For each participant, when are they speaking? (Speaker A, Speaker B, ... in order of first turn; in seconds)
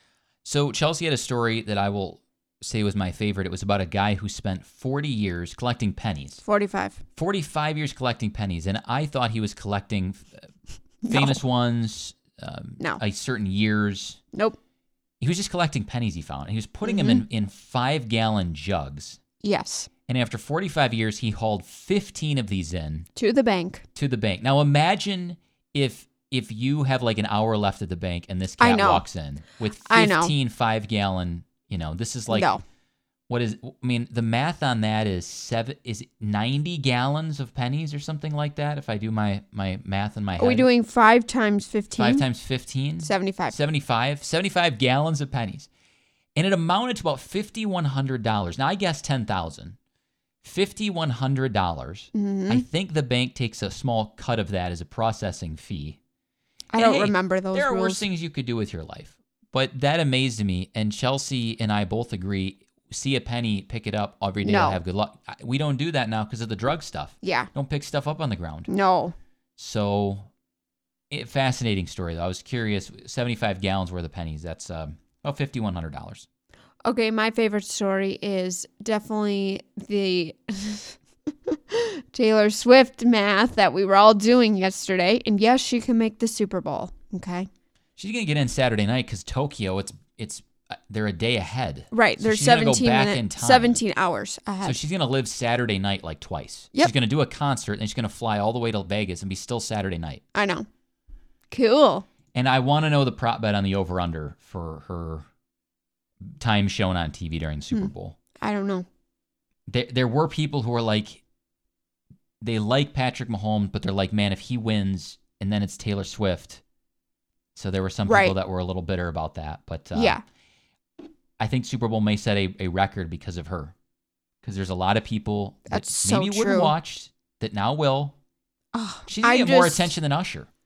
Speaker A: 0.4-6.4, 7.2-10.4, 11.0-14.2, 15.2-19.2, 20.1-23.1, 23.9-32.5, 33.3-40.7, 42.0-45.7, 46.4-49.8, 50.4-56.0, 56.8-68.7, 69.6-70.3, 71.1-76.3, 88.0-93.8, 94.6-100.2, 102.3-105.3, 106.4-108.2, 109.7-111.2, 112.4-116.6, 117.5-120.2, 121.4-123.7, 124.4-128.2, 129.1-130.5
Speaker B: 6.4-7.0, 11.0-11.4, 14.3-14.6, 16.8-17.2, 19.4-19.9, 23.1-23.8, 28.6-29.0, 29.8-30.3, 32.3-32.6, 40.4-42.2, 43.0-43.5, 52.1-52.6, 56.7-58.0, 64.4-64.8, 67.2-67.5, 68.7-69.1, 76.8-87.5, 91.9-94.8, 100.3-100.7, 101.5-102.0, 107.7-108.9, 118.0-118.3, 119.9-120.2, 125.7-126.7, 128.7-129.9